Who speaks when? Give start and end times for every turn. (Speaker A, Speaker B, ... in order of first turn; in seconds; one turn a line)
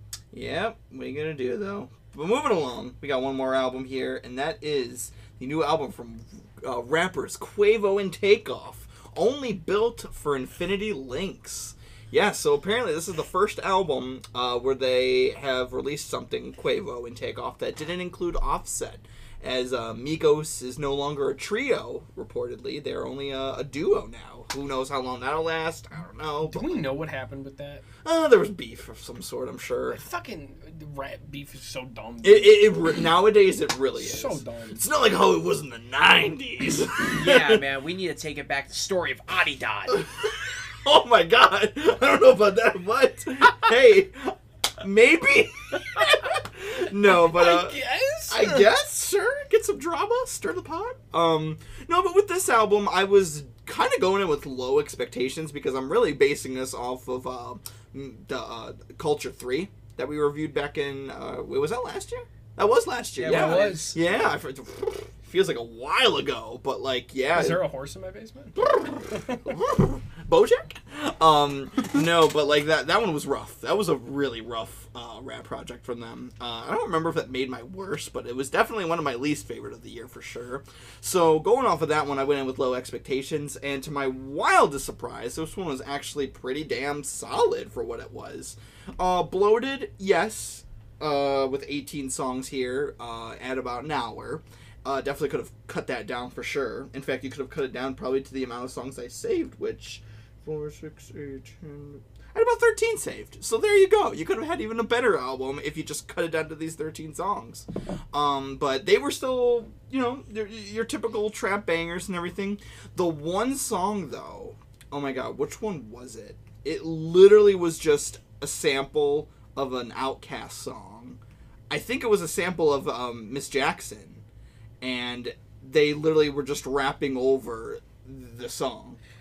Speaker A: 0.3-26.8
Speaker B: 26.5-27.8
Speaker A: 28.0-30.0
Speaker B: 29.9-32.8
Speaker A: 32.2-37.6
Speaker B: 34.0-34.8
Speaker C: 37.1-40.1
Speaker A: 39.9-67.6
Speaker B: 47.0-48.6
Speaker C: 63.2-64.0
Speaker B: 63.2-64.0
Speaker B: 67.3-69.5
Speaker A: 68.5-124.2
Speaker A: 124.8-129.0